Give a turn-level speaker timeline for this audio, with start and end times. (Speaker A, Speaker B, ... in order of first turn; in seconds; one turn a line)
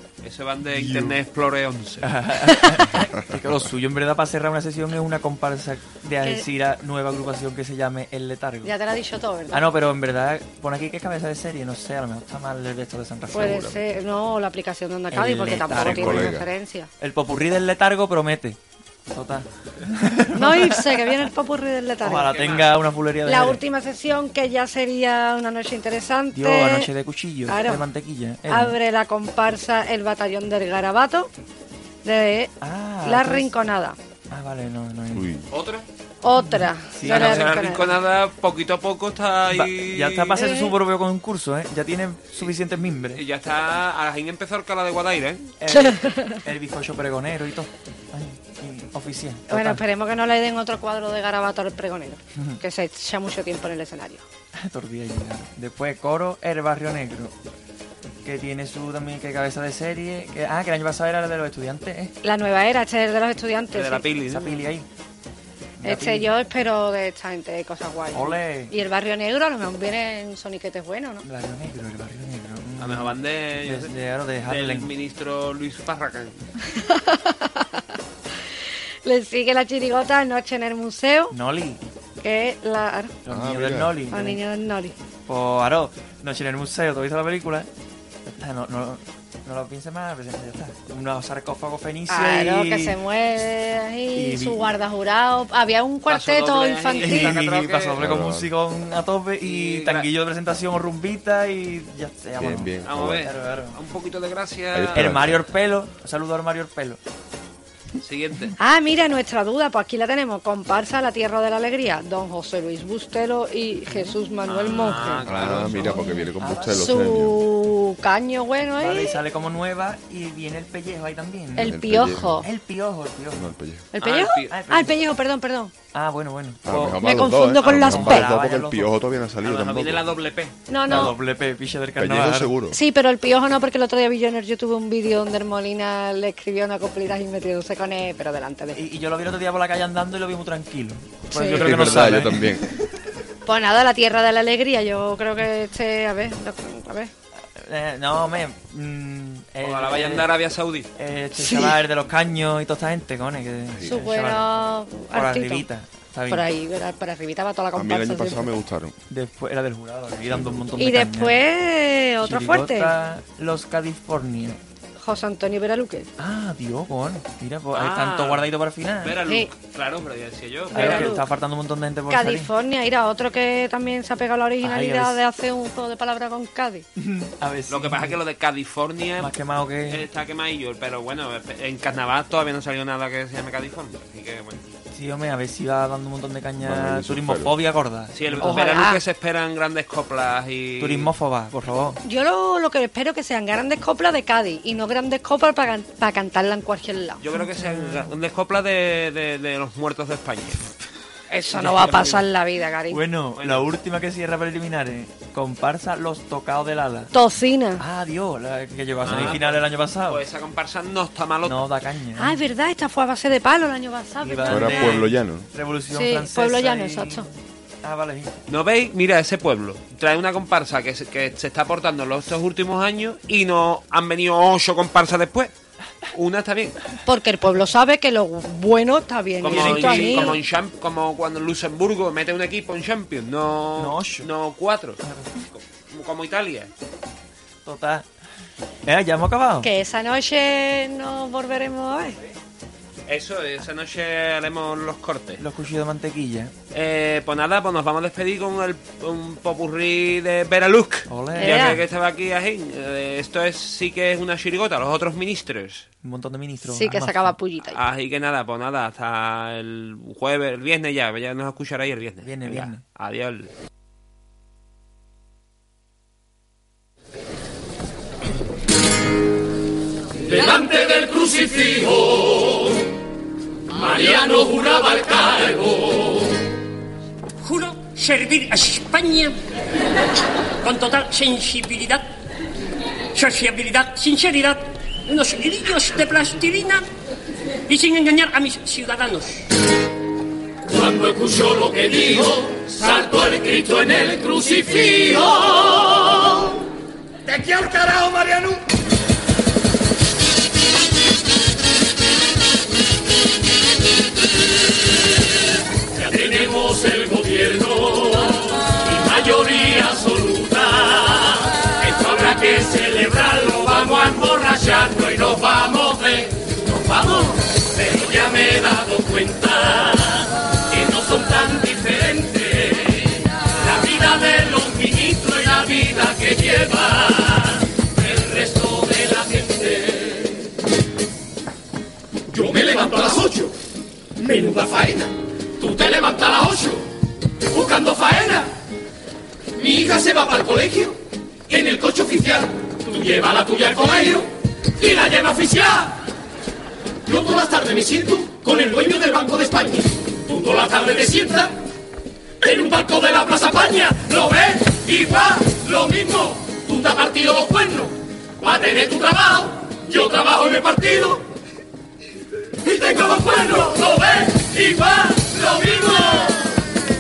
Speaker A: 0.2-2.1
Speaker B: 0.7-1.2
Speaker B: 2.0-8.7
Speaker C: 8.6-9.6
Speaker B: 9.5-13.8
Speaker C: 13.3-16.9
Speaker B: 15.1-16.4
Speaker D: 15.7-16.5
Speaker B: 17.0-18.6
Speaker B: 19.1-21.2
Speaker C: 20.4-22.4
Speaker B: 22.0-23.6
Speaker A: 22.4-22.7
Speaker C: 23.3-26.9
Speaker B: 26.3-28.8
Speaker C: 27.5-27.9
Speaker C: 28.5-31.3
Speaker C: 32.0-34.0
Speaker B: 32.6-33.5
Speaker B: 34.3-35.3
Speaker D: 35.1-35.5
Speaker A: 35.5-35.9
Speaker C: 36.2-38.0
Speaker B: 36.4-37.6
Speaker A: 37.0-40.4
Speaker B: 39.5-43.2
Speaker C: 40.4-40.7
Speaker A: 43.1-45.5
Speaker B: 45.6-49.8
Speaker C: 45.7-46.4
Speaker C: 49.5-54.2
Speaker B: 52.4-52.6
Speaker B: 54.6-57.3
Speaker B: 58.2-62.1
Speaker C: 62.2-64.1
Speaker A: 63.7-64.7
Speaker B: 64.3-64.9
Speaker B: 65.8-66.3
Speaker C: 65.8-71.2
Speaker B: 68.1-68.7
Speaker B: 71.2-74.9
Speaker A: 72.8-76.4
Speaker C: 76.7-78.0
Speaker C: 79.0-81.3
Speaker B: 81.3-81.8
Speaker C: 82.2-83.2
Speaker B: 83.2-84.4
Speaker D: 83.3-84.0
Speaker C: 84.1-85.0
Speaker B: 85.3-87.7
Speaker B: 88.2-93.0
Speaker C: 92.1-97.3
Speaker B: 94.1-94.7
Speaker A: 96.1-98.0
Speaker B: 97.0-103.8
Speaker D: 98.0-98.5
Speaker A: 99.4-100.1
Speaker D: 102.4-103.3
Speaker A: 102.8-105.1
Speaker D: 104.7-105.5
Speaker B: 104.9-107.0
Speaker A: 108.0-108.5
Speaker C: 108.6-115.2
Speaker B: 113.9-114.2
Speaker A: 114.5-116.0
Speaker D: 115.2-117.5
Speaker B: 115.4-116.9
Speaker C: 116.7-119.2
Speaker B: 118.8-121.8
Speaker C: 121.6-122.5
Speaker D: 121.6-122.5
Speaker B: 122.4-123.5
Speaker D: 123.3-123.9
Speaker C: 123.9-125.7
Speaker A: 124.0-124.5
Speaker B: 124.5-124.9
Speaker B: 125.9-127.0
Speaker D: 126.7-130.1
Speaker C: 127.0-128.3
Speaker B: 127.6-128.9
Speaker A: 129.4-130.5
Speaker C: 130.7-131.2
Speaker D: 130.9-131.2
Speaker B: 130.9-132.5
Speaker D: 132.0-132.8
Speaker C: 132.7-138.8
Speaker B: 138.8-142.6
Speaker C: 141.3-141.9
Speaker D: 141.5-142.7
Speaker C: 143.5-147.1
Speaker B: 147.6-150.3
Speaker A: 149.6-150.9
Speaker B: 151.0-156.4
Speaker C: 151.4-151.8
Speaker D: 153.7-154.1
Speaker C: 153.9-155.7
Speaker C: 156.3-158.5
Speaker D: 157.7-159.0
Speaker B: 159.1-161.4
Speaker D: 160.2-160.7
Speaker C: 160.8-162.9
Speaker B: 162.2-164.6
Speaker C: 165.0-166.1
Speaker B: 166.2-169.2
Speaker A: 167.8-168.5
Speaker A: 169.0-171.2
Speaker C: 170.7-171.3
Speaker B: 170.7-172.5
Speaker C: 172.1-176.9
Speaker B: 174.6-175.2
Speaker B: 177.0-178.2
Speaker A: 177.7-179.3
Speaker B: 179.2-180.0
Speaker A: 179.9-184.6
Speaker B: 184.9-188.6
Speaker D: 186.6-187.6
Speaker A: 188.2-191.1
Speaker C: 188.4-189.0
Speaker B: 190.8-192.0
Speaker C: 192.0-197.2
Speaker A: 197.2-200.7
Speaker B: 197.4-198.1
Speaker C: 201.3-203.0
Speaker B: 201.5-202.1
Speaker A: 201.7-202.2
Speaker B: 202.9-207.1
Speaker A: 203.4-203.7
Speaker C: 207.1-207.8
Speaker B: 207.8-210.2
Speaker A: 209.0-211.6
Speaker B: 211.4-212.4
Speaker C: 212.2-215.0
Speaker B: 214.2-217.3
Speaker D: 214.5-215.5
Speaker C: 215.9-217.3
Speaker B: 217.8-218.4
Speaker A: 218.5-225.5
Speaker A: 226.1-226.8
Speaker C: 227.1-230.4
Speaker A: 229.4-235.0
Speaker B: 229.4-230.4
Speaker B: 233.8-234.3
Speaker B: 235.0-235.4
Speaker A: 235.5-236.7
Speaker B: 237.7-238.1
Speaker B: 238.9-239.7
Speaker C: 239.6-242.2
Speaker A: 243.1-245.4
Speaker B: 245.4-246.5
Speaker A: 246.7-255.9
Speaker B: 251.1-251.8
Speaker C: 251.4-251.8
Speaker B: 256.0-257.4
Speaker C: 256.6-257.8
Speaker A: 257.6-263.5
Speaker B: 262.2-262.8
Speaker E: 270.2-272.8
Speaker E: 273.7-276.3
Speaker F: 277.4-279.4
Speaker F: 280.6-282.0
Speaker F: 283.1-286.8
Speaker F: 287.7-289.4
Speaker E: 290.6-296.6
Speaker E: 297.3-298.6
Speaker E: 305.9-330.5
Speaker E: 332.3-333.5
Speaker E: 334.2-336.9
Speaker E: 337.5-338.5
Speaker E: 339.6-341.0
Speaker E: 341.5-346.0
Speaker E: 347.1-351.5
Speaker E: 352.4-361.2
Speaker E: 362.6-366.5